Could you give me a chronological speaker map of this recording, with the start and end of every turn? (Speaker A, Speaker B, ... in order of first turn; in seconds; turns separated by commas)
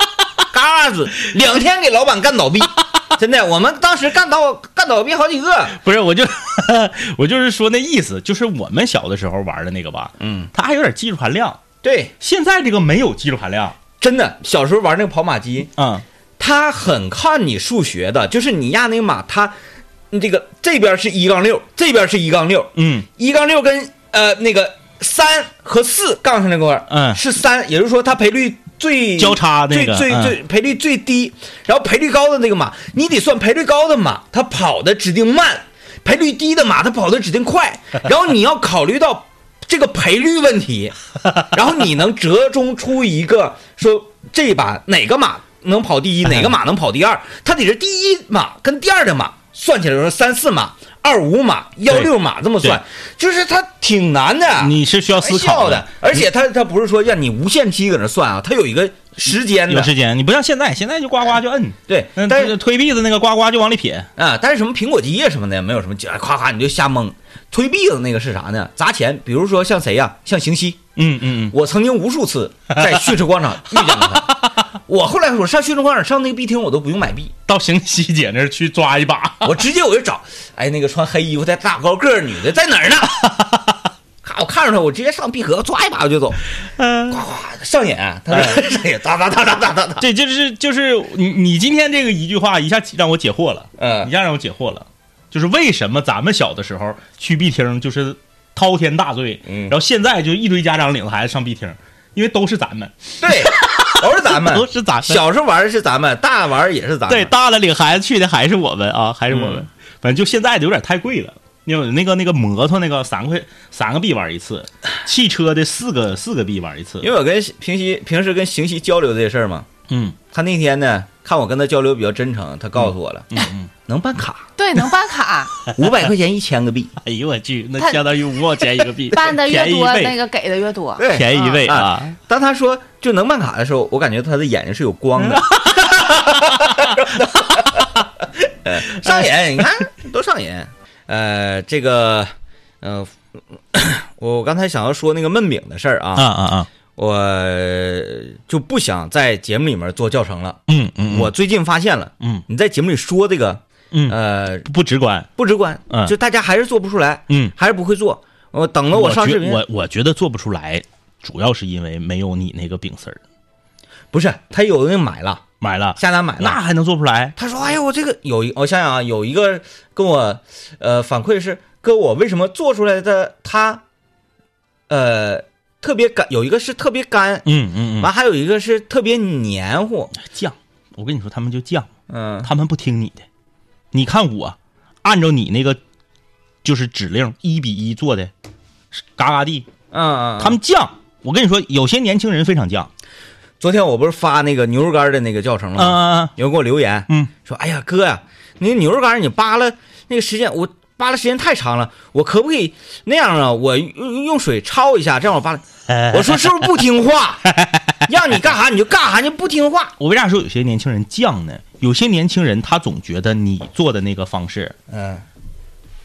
Speaker A: 0.5-5.8, Speaker B: 5.8-11.6, Speaker A: 10.2-10.5, Speaker A: 11.8-12.1, Speaker B: 12.2-13.8, Speaker A: 14.0-15.7, Speaker B: 15.8-16.0, Speaker A: 16.4-19.6, Speaker A: 20.1-59.9, Speaker B: 22.8-23.1, Speaker B: 26.9-27.2, Speaker B: 29.2-30.4, Speaker B: 54.6-56.2, Speaker B: 59.7-64.1, Speaker A: 61.9-62.5, Speaker A: 64.2-70.8, Speaker B: 71.0-71.5, Speaker A: 71.5-77.3, Speaker B: 72.7-73.2, Speaker B: 73.7-74.6, Speaker B: 77.5-79.6, Speaker A: 79.4-83.3, Speaker B: 83.3-83.5, Speaker A: 84.2-86.4, Speaker B: 86.8-87.2, Speaker A: 87.1-90.0, Speaker B: 88.3-88.6, Speaker B: 90.0-105.2, Speaker A: 93.8-94.1, Speaker A: 99.5-99.8, Speaker A: 103.2-107.3, Speaker B: 107.1-117.1, Speaker A: 109.3-109.6, Speaker A: 117.0-119.7, Speaker B: 119.9-120.2, Speaker A: 120.3-124.5, Speaker B: 122.8-123.7, Speaker C: 124.6-125.5, Speaker B: 125.7-125.9, Speaker A: 125.7-126.9, Speaker B: 127.0-130.2, Speaker C: 129.1-131.7, Speaker A: 131.0-138.0, Speaker B: 131.1-132.2, Speaker B: 135.2-137.8, Speaker A: 138.6-142.3, Speaker B: 139.0-139.3, Speaker A: 142.8-146.3, Speaker B: 146.2-146.7, Speaker A: 146.9-154.7, Speaker B: 150.7-151.3, Speaker B: 153.9-155.3, Speaker A: 155.4-159.6, Speaker B: 157.3-157.5, Speaker B: 158.9-163.2, Speaker A: 164.1-165.4, Speaker B: 165.6-167.3, Speaker A: 166.0-166.6, Speaker A: 167.4-173.8, Speaker A: 174.9-177.5, Speaker B: 177.5-178.1, Speaker A: 178.0-180.1, Speaker B: 180.2-181.9, Speaker A: 182.1-182.5, Speaker B: 182.4-183.3, Speaker B: 183.9-185.8, Speaker B: 186.6-188.3, Speaker B: 188.9-189.7, Speaker A: 189.9-190.6, Speaker B: 190.4-192.9, Speaker A: 193.6-207.5, Speaker B: 195.8-196.3, Speaker B: 205.9-206.7, Speaker B: 207.5-208.1, Speaker A: 208.1-209.9, Speaker B: 210.0-214.8, Speaker A: 214.9-215.2